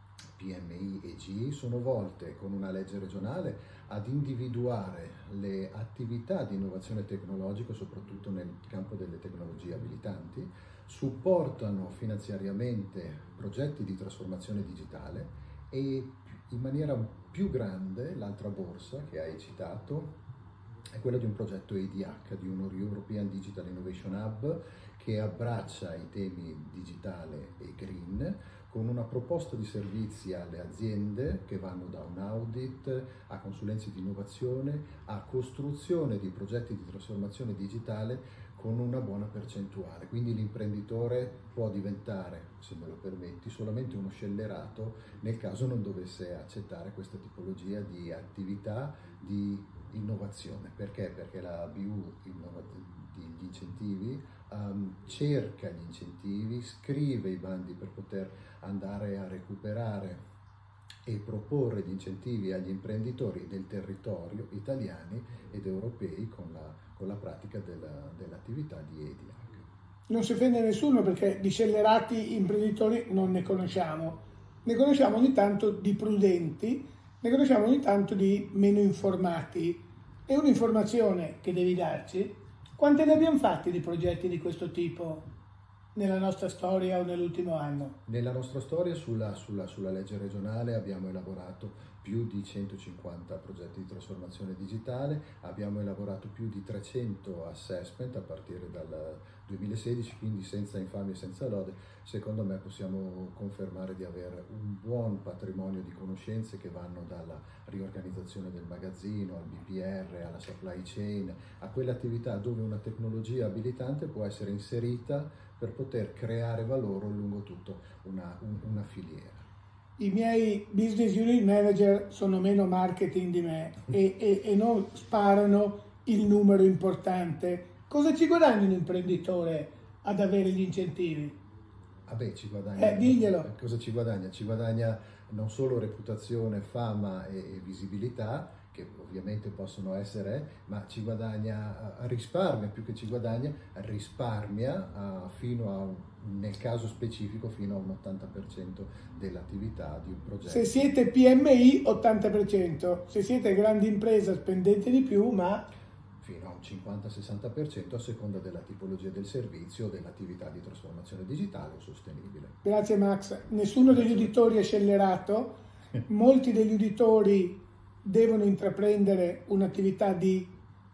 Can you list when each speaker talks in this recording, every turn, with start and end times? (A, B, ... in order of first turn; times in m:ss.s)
0:00.3-0:20.2 A
0:20.9-1:00.2 A
1:01.0-1:09.7 A
1:10.1-1:25.3 B
1:25.9-1:28.0 B
1:28.0-1:59.4 A
2:00.0-2:11.4 B
2:12.1-2:30.8 A
2:12.8-2:13.5 B
2:30.5-2:35.7 B
2:36.2-2:42.6 A
2:42.6-2:45.5 B
2:43.9-2:44.3 A
2:46.0-2:50.5 B